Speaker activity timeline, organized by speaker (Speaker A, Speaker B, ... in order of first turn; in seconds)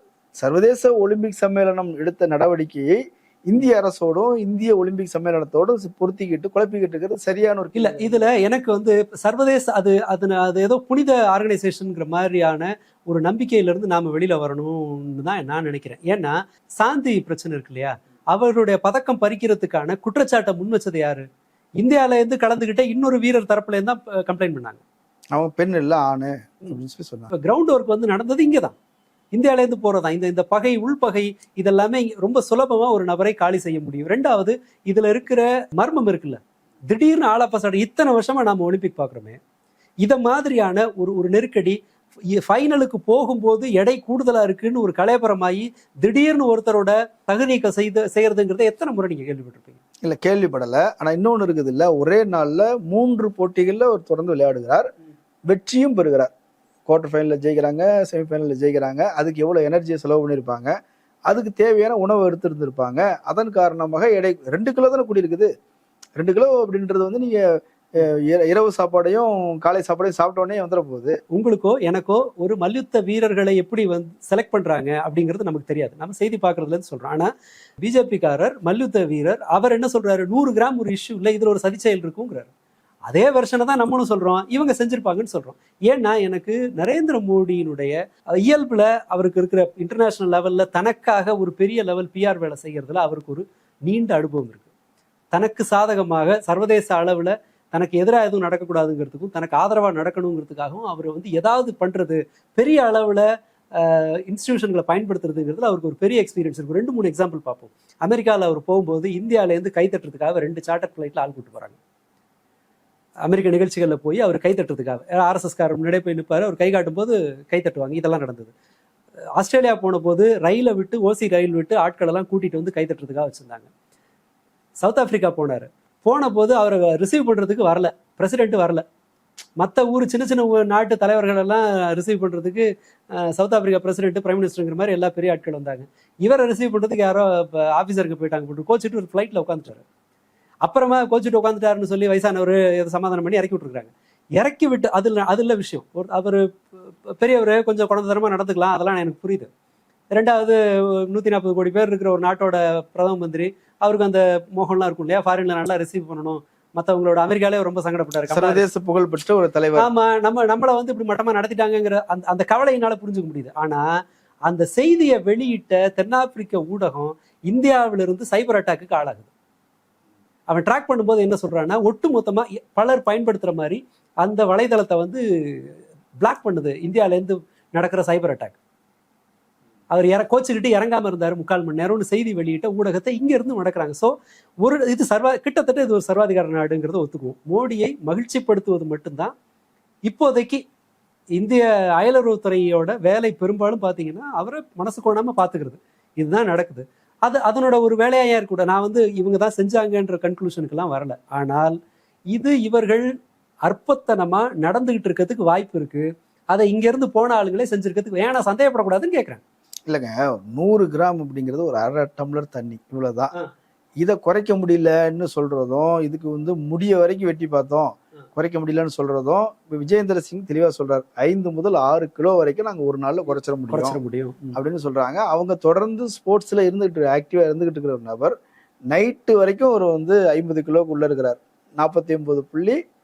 Speaker A: 0.4-8.2, 25.3-27.3, 50.0-54.9, 55.5-56.3, 56.9-60.7, 61.3-65.5, 66.2-71.2, 158.3-159.9, 209.9-213.3, 214.0-224.0, 224.5-228.3, 228.9-232.8
Speaker B: 7.8-21.3, 21.8-24.8, 27.3-28.7, 29.3-39.4, 40.0-41.8, 42.3-49.8, 71.3-77.3, 77.8-82.5, 83.1-94.7, 95.3-111.8, 113.2-118.5, 119.4-123.7, 124.8-128.8, 129.6-139.8, 140.6-149.5, 150.1-158.7, 159.8-163.9, 164.5-169.3, 170.5-178.6, 179.9-189.3, 190.1-190.6, 191.4-201.8, 202.3-203.1, 203.7-209.4, 223.7-224.6